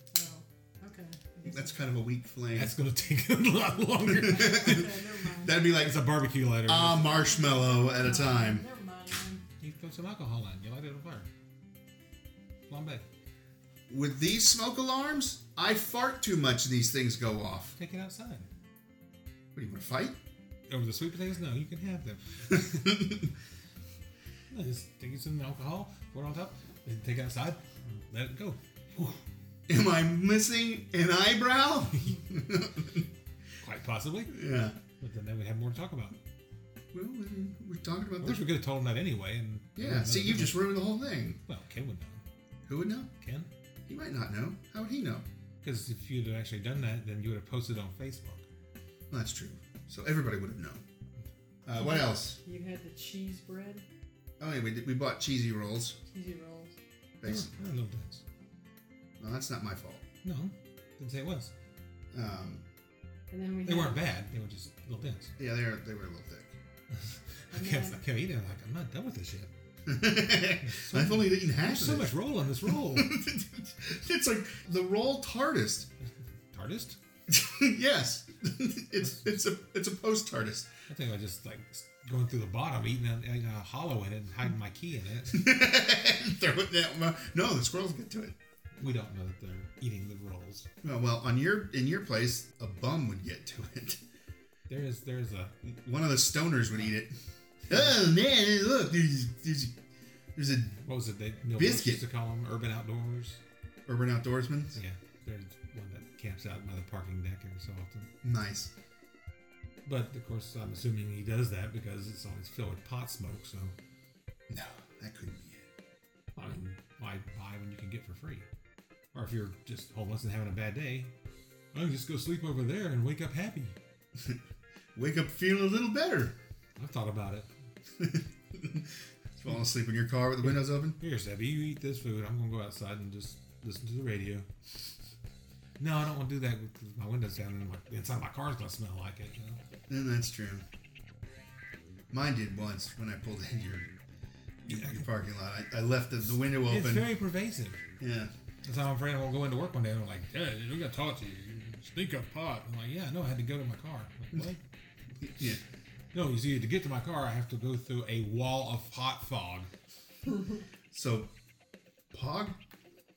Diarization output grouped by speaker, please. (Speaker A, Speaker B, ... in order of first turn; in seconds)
Speaker A: 0.1-1.8, 4.2-5.6, 7.0-9.4, 51.8-53.8, 56.1-56.8, 63.3-64.0, 67.5-68.0
Speaker B: 1.4-2.7, 4.1-6.1, 6.6-8.6, 13.9-17.8, 19.5-20.1, 22.5-23.3, 29.7-33.1, 34.3-34.8, 36.9-38.5, 39.8-41.4, 42.7-43.1, 43.9-45.2, 49.1-50.8, 51.6-52.4, 54.4-56.0, 57.2-57.5, 59.2-60.0, 62.1-62.6, 65.4-66.5, 69.9-72.1, 72.6-75.9, 77.3-80.7, 85.3-88.3, 90.8-94.0, 95.7-97.2, 97.7-99.7, 100.3-100.8, 101.5-102.0, 103.9-104.8, 108.2-108.7, 114.5-115.7, 125.0-126.3, 128.0-131.0, 139.9-140.6, 142.1-143.9, 144.6-147.1, 148.0-148.3, 155.2-155.6, 160.9-161.3, 162.1-162.6
Speaker C: 2.5-5.0, 5.5-7.2, 9.6-11.3, 12.7-13.0, 17.8-18.5, 20.7-23.1, 24.5-29.2, 33.6-34.4, 35.0-36.2, 38.2-40.7, 41.5-42.2, 43.2-43.5, 45.6-48.4, 57.2-58.2, 60.2-61.5, 63.6-65.3, 66.9-69.5, 70.6-73.1, 76.5-77.0, 80.9-85.5, 88.8-90.7, 94.7-95.5, 100.8-103.4, 104.8-108.1, 109.8-113.8, 116.3-118.5, 119.1-121.1, 121.7-123.8, 126.8-127.5, 131.0-134.5, 135.8-139.6, 144.7-145.0, 146.7-147.8, 148.6-154.6, 156.1-159.7